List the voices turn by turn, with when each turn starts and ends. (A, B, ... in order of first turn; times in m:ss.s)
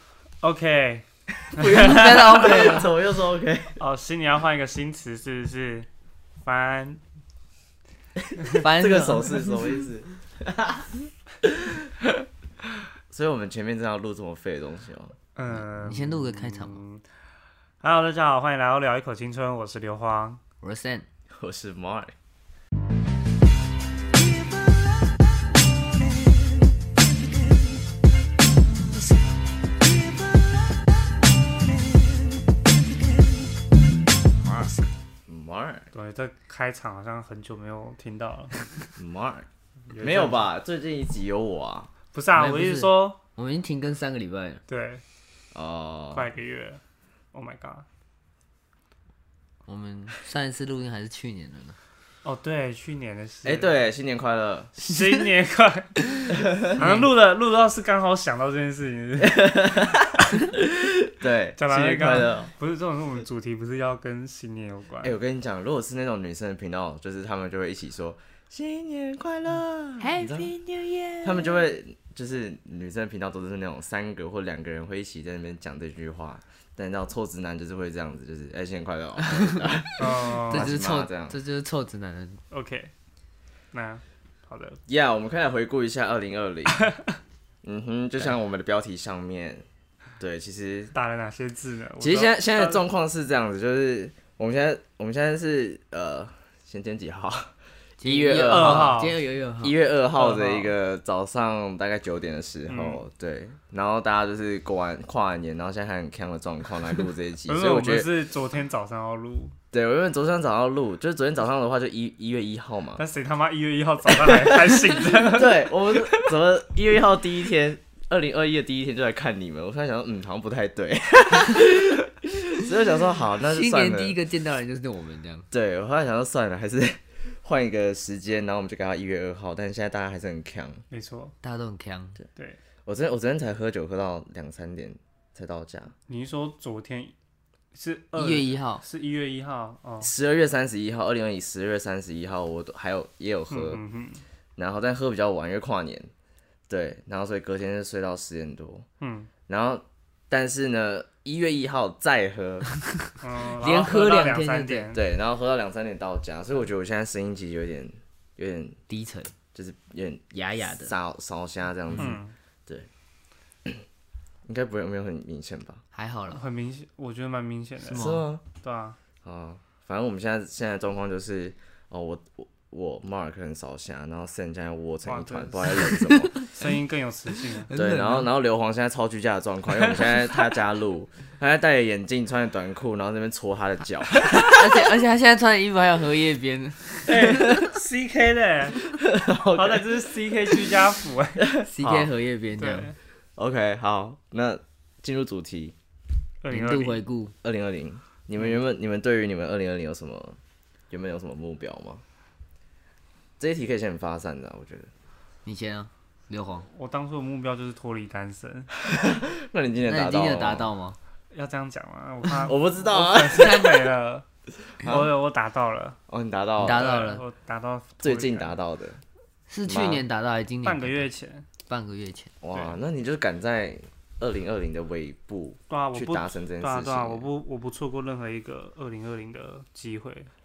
0:00.4-0:02.8 A
0:01.5-0:03.8 B
0:01.6-0:02.9 C
0:03.8-0:05.9 A
0:06.4-0:07.0 A
0:08.3-0:10.9 B
0:08.6-0:09.5 C
0:11.4-0:12.0 B
0:13.1-0:15.1 B
0:15.4-0:17.0 A
0:15.5-0:16.8 C
0:17.8-0:20.4 A
0:20.6-0:21.1 C
0:21.3-0:22.1 B
0:35.3-0:35.9 B
0:35.9-0:38.8 A
0:39.0-0:41.9 B
0:39.9-0:40.5 A
0:42.1-0:43.2 A
0:42.3-0:44.6 C
0:44.7-0:45.0 A
0:45.5-0:46.3 B
0:46.1-0:46.8 A
0:47.3-0:47.8 A
0:49.6-0:51.8 C
0:52.2-0:53.7 A
0:53.4-0:54.8 B
0:54.8-1:00.0 A
0:56.3-0:56.8 B
0:56.8-0:57.1 C
0:59.2-1:02.5 B
1:01.6-1:05.2 A
1:05.0-1:10.5 B
1:10.0-1:11.5 C
1:11.2-1:21.4 B
1:19.3-1:19.6 C
1:20.0-1:20.7 A
1:20.4-1:22.4 C
1:22.5-1:22.9 A
1:23.7-1:24.8 A
1:24.9-1:26.9 B
1:27.6-1:29.6 B
1:30.2-1:30.9 B
1:30.9-1:32.8 A
1:32.0-1:39.0 B
1:38.0-1:39.8 C
1:38.3-1:39.2 A
1:39.6-1:48.1 B
1:40.1-1:40.7 A
1:42.7-1:43.0 A
1:47.5-1:49.5 A
1:49.7-1:53.0 B
1:53.0-1:56.3 A
1:54.1-2:04.2 B
2:03.4-2:05.5 C
2:05.5-2:10.8 B
2:10.9-2:11.3 A
2:11.4-2:12.2 C
2:12.8-2:15.9 B
2:16.1-2:17.1 A
2:17.7-2:20.1 A
2:18.2-2:18.8 C
2:20.0-2:23.8 B
2:23.5-2:24.2 A
2:24.6-2:26.1 B
2:26.7-2:28.8 B
2:29.0-2:29.3 A
2:29.5-2:32.6 B
2:33.2-2:35.0 A
2:33.6-2:34.9 C
2:34.9-2:38.8 B
2:38.9-2:39.3 C
2:39.5-2:42.9 B
2:40.3-2:40.9 C
2:42.0-2:42.3 A
2:44.4-2:45.8 B
2:45.9-2:46.4 C
2:46.3-2:49.0 A
2:47.9-2:48.2 C
2:47.9-2:48.4 B
2:49.2-2:56.5 B
2:55.0-2:57.7 A
2:55.8-2:56.4 C
2:57.6-2:58.3 C
2:57.7-3:04.8 B
3:04.4-3:07.1 C
3:07.1-3:08.8 A
3:07.2-3:07.6 B
3:09.0-3:10.0 B
3:09.5-3:11.4 A
3:11.4-3:12.1 B
3:11.6-3:12.9 C
3:12.6-3:13.0 A
3:13.4-3:15.7 B
3:16.4-3:17.0 A
3:16.5-3:17.3 C
3:17.4-3:20.4 B
3:20.9-3:22.0 B
3:23.4-3:24.9 B
3:25.4-3:26.7 C
3:26.7-3:28.7 A
3:28.8-3:30.7 B
3:29.8-3:31.0 C
3:31.3-3:34.2 A
3:32.4-3:33.9 B
3:34.8-3:35.1 B
3:34.8-3:36.0 A
3:36.1-3:37.0 B
3:36.6-3:37.2 C
3:36.6-3:38.6 A
3:38.0-3:39.0 B
3:39.5-3:41.1 C
3:39.6-3:40.0 B
3:40.6-3:41.4 A
3:41.7-3:42.3 C
3:42.4-3:47.3 B
3:45.7-3:50.3 A